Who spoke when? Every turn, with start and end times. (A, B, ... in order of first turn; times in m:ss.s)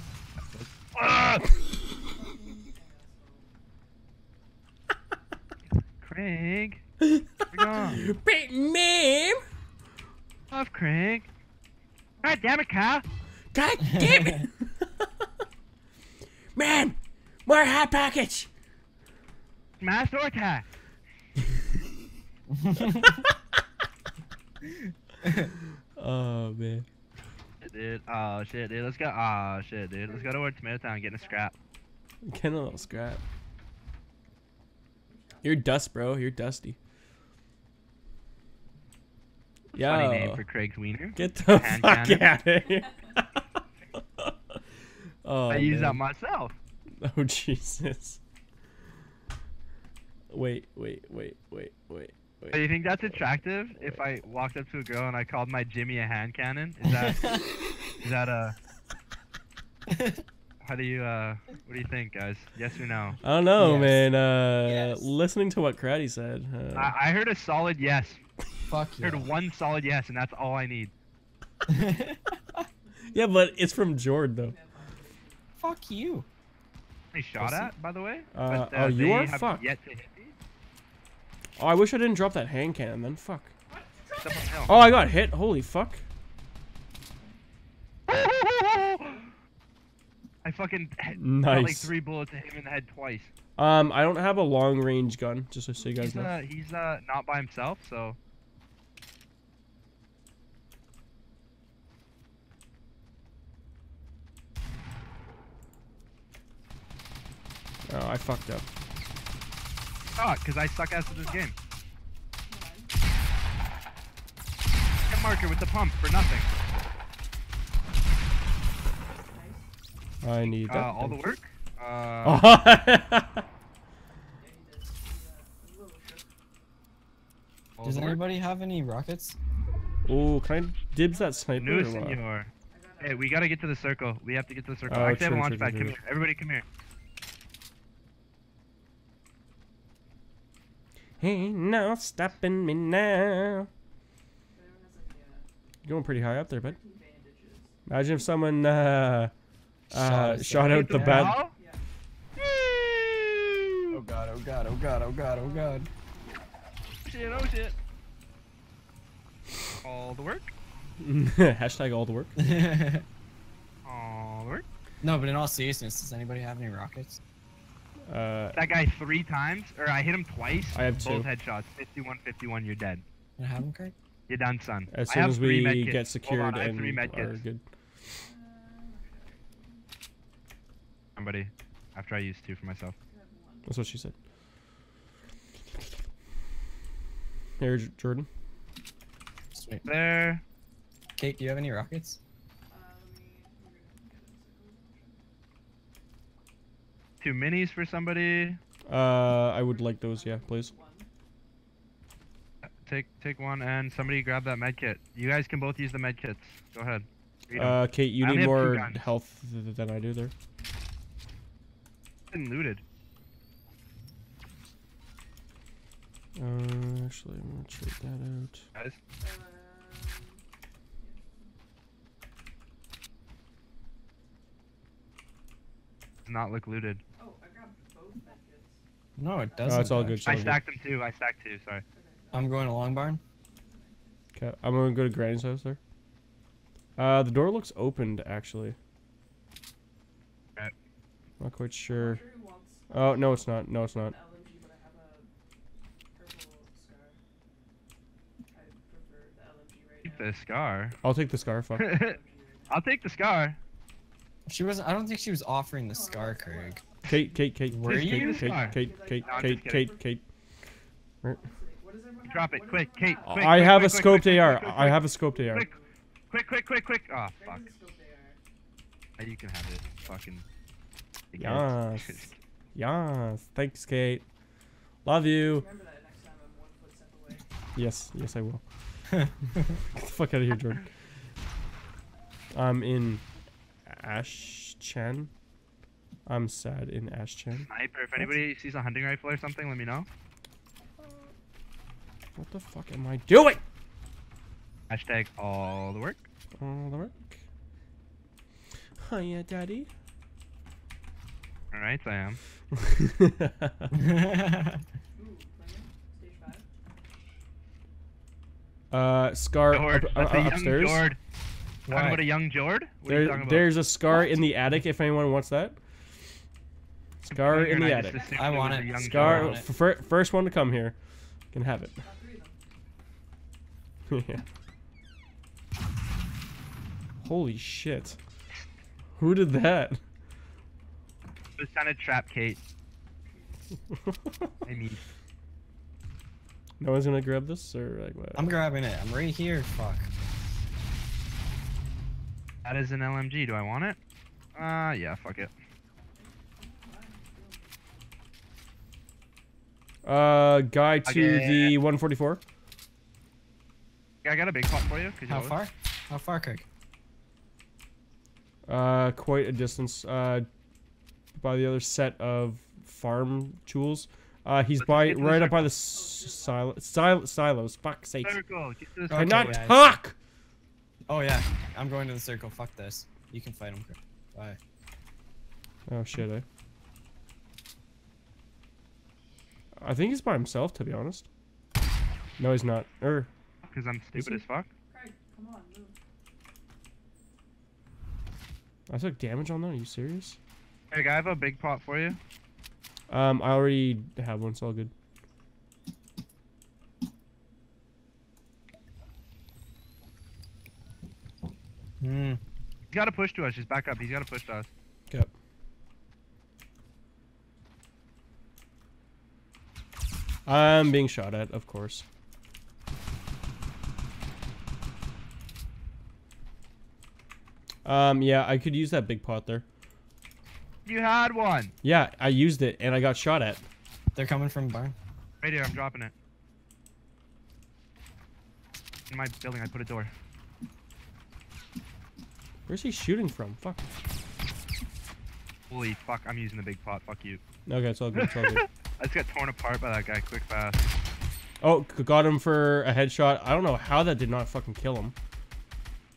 0:01.0-0:01.6 A
0:02.1-0:03.5 B
0:06.0-0:06.8 C
0:07.0-0:09.4 A
0:07.5-0:08.0 C
0:10.5-0:11.3 C
0:12.2-0:12.5 B
0:12.2-0:13.0 C
0:13.5-0:15.0 A
0:13.9-0:14.4 D
0:16.5-0:18.5 A
0:19.8-0:20.6 C
0:22.6-0:23.1 D
0:26.0-0:26.9 A
0:27.6-0:31.5 C
0:30.0-0:30.4 B
0:31.0-0:31.5 B
0:32.2-0:33.2 A
0:35.1-0:35.6 B
0:35.4-0:36.8 A
0:39.7-0:40.4 A
0:39.8-0:42.2 C
0:41.1-0:43.4 A
0:45.2-0:46.0 A
0:45.5-0:46.5 C
0:47.0-0:48.2 A
0:50.3-0:53.1 A
0:52.5-0:57.4 C
0:56.8-0:57.4 D
0:58.0-0:58.6 C
0:59.9-1:00.2 D
1:00.6-1:03.2 C
1:03.2-1:07.0 A
1:03.6-1:04.1 D
1:04.7-1:05.0 B
1:06.7-1:08.2 C
1:08.7-1:09.3 D
1:09.0-1:10.9 C
1:11.7-1:12.6 D
1:12.8-1:15.5 B
1:13.1-1:14.6 A
1:15.6-1:16.3 D
1:17.1-1:20.3 C
1:17.4-1:17.7 A
1:18.3-1:19.7 A
1:21.6-1:23.5 A
1:23.7-1:24.8 B
1:24.2-1:24.7 C
1:24.7-1:26.0 A
1:28.1-1:29.2 C
1:29.0-1:29.3 B
1:30.4-1:33.3 C
1:31.2-1:31.9 A
1:33.6-1:36.3 A
1:36.0-1:38.2 C
1:47.9-1:48.7 A
1:50.2-1:51.6 C
1:51.0-1:51.5 B
1:52.5-1:52.9 B
1:55.1-1:56.5 C
1:59.2-1:59.7 B
2:00.2-2:01.3 A
2:00.4-2:02.4 C
2:02.2-2:03.4 A
2:04.3-2:06.3 B
2:07.8-2:08.2 C
2:07.8-2:09.4 D
2:10.0-2:12.2 A
2:11.1-2:12.1 B
2:11.6-2:16.6 C
2:12.7-2:13.5 B
2:14.8-2:16.0 A
2:21.2-2:21.5 B
2:21.2-2:23.7 A
2:24.5-2:27.8 B
2:25.8-2:26.8 A
2:27.8-2:29.3 A
2:29.9-2:31.4 D
2:29.9-2:31.4 A
2:30.6-2:31.5 C
2:31.5-2:31.8 B
2:32.4-2:33.5 C
2:33.9-2:35.9 D
2:35.2-2:36.4 B
2:37.0-2:37.8 C
2:39.8-2:40.5 C
2:41.0-2:42.4 A
2:42.4-2:43.0 D
2:43.8-2:44.7 C
2:45.0-2:47.2 D
2:48.1-2:48.6 A
2:48.5-2:53.0 C
2:50.7-2:51.3 A
2:53.4-2:53.9 D
2:54.3-2:57.4 C
2:54.9-2:57.6 A
2:58.2-2:59.8 B
3:01.2-3:02.9 C
3:03.1-3:04.4 B
3:03.7-3:04.1 A
3:07.6-3:08.3 A
3:09.6-3:09.8 D
3:09.8-3:10.4 C
3:11.2-3:12.2 D
3:12.7-3:15.2 B
3:17.2-3:18.6 C
3:18.9-3:20.7 A
3:19.6-3:21.1 B
3:22.6-3:29.1 C
3:27.5-3:30.3 A
3:32.3-3:32.8 C
3:36.4-3:38.6 A
3:39.2-3:40.4 B
3:41.0-3:41.5 B
3:46.2-3:47.0 C
3:47.2-3:48.8 B
3:49.2-3:50.6 D
3:49.4-3:50.1 B
3:49.7-3:50.6 A
3:50.2-3:51.8 C
3:51.9-3:54.2 B
3:52.3-3:53.2 D
3:54.3-3:55.8 A
3:57.0-3:58.8 A
4:01.4-4:02.2 A
4:01.9-4:05.3 B
4:02.9-4:04.1 A
4:06.1-4:07.2 B
4:08.5-4:10.4 B
4:10.0-4:10.9 C
4:11.0-4:11.8 A
4:11.8-4:12.2 C
4:11.8-4:12.8 B
4:12.7-4:13.6 C
4:14.5-4:16.8 D
4:15.9-4:16.9 B
4:17.1-4:20.2 A
4:17.7-4:18.6 D
4:17.8-4:19.9 C
4:18.4-4:20.1 B
4:21.2-4:23.7 B
4:22.3-4:25.7 C
4:23.2-4:25.7 A
4:24.8-4:25.9 B
4:26.3-4:27.7 C
4:27.2-4:28.4 B
4:29.2-4:30.4 C
4:29.8-4:30.2 B
4:31.3-4:32.3 C
4:31.4-4:34.2 A
4:35.0-4:35.7 A
4:35.3-4:37.5 B
4:37.8-4:38.6 A
4:39.9-4:40.8 A
4:42.5-4:43.2 A
4:43.9-4:45.3 A
4:46.2-4:47.7 A
4:47.6-4:50.1 C
4:52.4-4:53.6 A
4:54.9-4:56.2 C
4:56.6-4:57.4 A
4:59.0-4:59.9 A
5:01.7-5:02.4 C
5:02.7-5:03.9 A
5:03.9-5:04.8 D
5:05.2-5:06.7 B
5:08.9-5:11.0 A
5:09.7-5:11.2 C
5:11.9-5:12.3 D
5:11.9-5:13.8 C
5:13.1-5:15.8 A
5:17.2-5:18.4 A
5:17.3-5:19.6 C
5:17.9-5:18.9 B
5:18.3-5:19.7 D
5:18.9-5:21.0 A
5:21.5-5:22.0 A
5:22.0-5:22.6 B
5:24.1-5:24.4 A
5:27.2-5:28.2 A
5:29.2-5:30.0 A
5:31.6-5:32.6 C
5:33.3-5:33.8 B
5:34.6-5:35.0 C
5:36.8-5:38.6 A
5:38.4-5:40.1 D
5:42.6-5:44.0 C
5:44.6-5:45.5 C
5:46.1-5:47.8 B
5:50.0-5:52.4 A
5:51.0-5:51.7 C
5:54.2-5:55.6 C
5:55.3-5:56.6 D
5:58.7-6:00.5 A
6:01.4-6:08.4 A
6:04.8-6:05.8 C
6:05.9-6:06.7 B
6:08.2-6:09.6 C
6:09.1-6:09.8 D
6:09.1-6:10.2 A
6:11.1-6:14.6 D
6:15.9-6:16.4 A
6:19.8-6:21.2 A
6:22.4-6:23.3 A
6:23.6-6:24.7 C
6:24.2-6:24.4 A
6:24.9-6:26.0 B
6:28.9-6:30.4 A
6:30.9-6:32.2 C
6:33.1-6:34.9 A
6:42.0-6:42.4 D
6:42.9-6:44.7 C
6:50.5-6:52.0 A
6:57.8-6:59.6 A
7:00.8-7:01.7 C
7:01.8-7:03.6 A
7:04.2-7:04.9 D
7:05.4-7:06.1 C
7:09.1-7:10.1 C
7:12.7-7:13.8 A
7:15.7-7:17.4 C
7:17.7-7:18.6 A
7:18.1-7:20.8 C
7:21.6-7:25.2 A